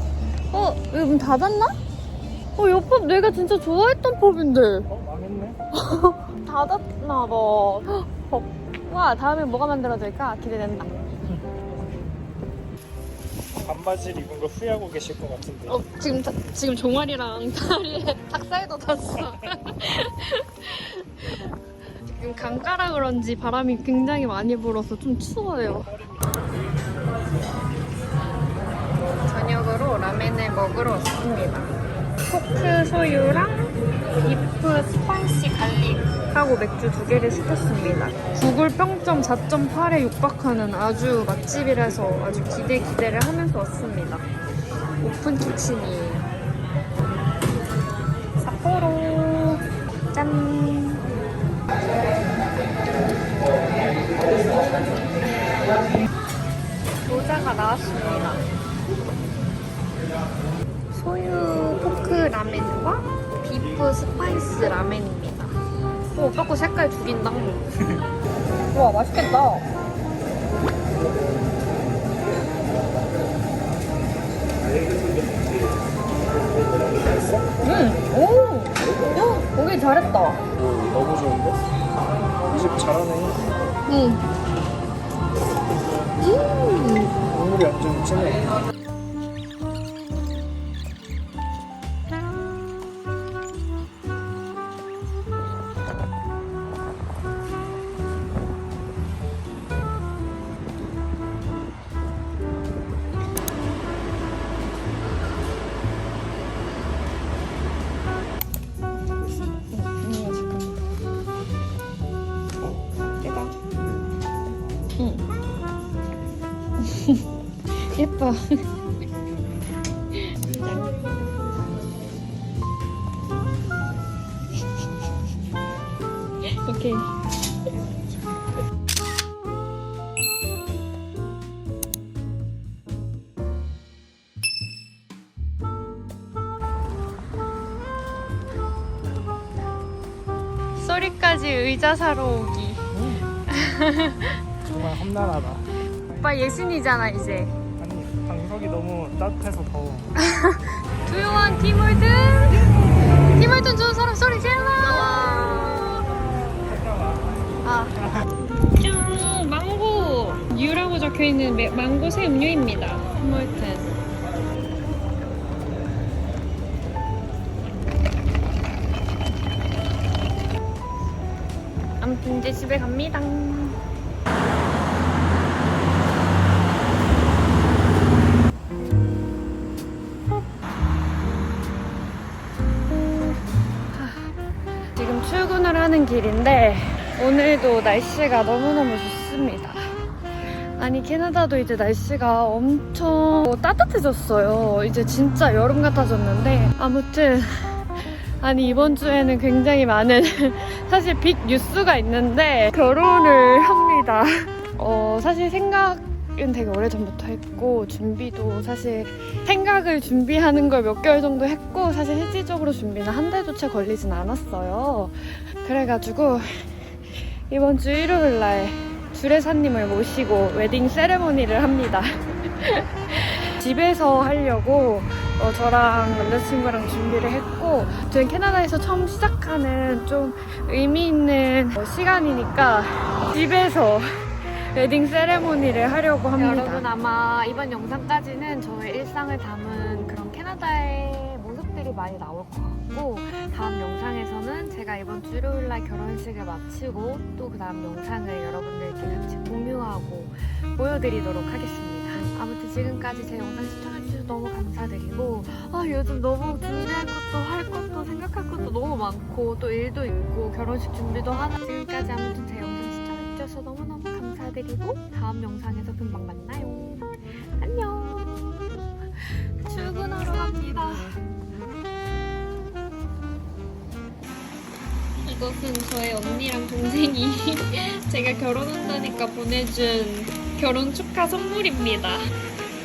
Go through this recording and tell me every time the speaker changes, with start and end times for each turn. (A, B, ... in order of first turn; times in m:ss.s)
0:00.5-0:01.8 A
0:02.6-0:04.9 A
0:04.9-0:05.6 B
0:05.7-0:11.1 A
0:13.5-0:15.8 B
0:15.7-0:21.4 A
0:22.1-0:25.9 A
0:25.7-0:26.9 B
0:29.2-0:31.8 A
0:32.3-0:44.3 A
0:45.0-0:46.3 A
0:48.4-0:49.6 A
0:50.1-0:51.1 A
0:57.0-0:58.4 A
1:00.9-1:05.6 A
1:06.1-1:07.6 A
1:08.7-1:09.6 A
1:14.6-1:17.5 B
1:17.6-1:20.4 A
1:20.5-1:21.6 B
1:22.5-1:23.4 B
1:23.9-1:24.2 A
1:26.2-1:27.1 A
1:27.2-1:28.6 B
1:49.7-1:50.9 A
1:53.2-1:53.5 A
1:55.0-1:55.2 A
1:56.8-1:57.2 A
1:57.8-1:58.6 A
2:00.2-2:01.6 A
2:06.5-2:07.1 A
2:20.8-2:22.8 A
2:22.9-2:23.3 B
2:23.5-2:24.4 A
2:24.7-2:26.5 B
2:26.2-2:27.6 A
2:27.8-2:30.1 B
2:30.2-2:32.7 A
2:33.3-2:36.1 A
2:34.9-2:35.4 B
2:36.5-2:38.1 B
2:37.6-2:38.0 A
2:38.8-2:43.9 A
2:52.0-2:53.8 A
3:03.9-3:04.3 A
3:04.9-3:10.0 A
3:10.5-4:31.2 A
4:35.2-4:42.3 A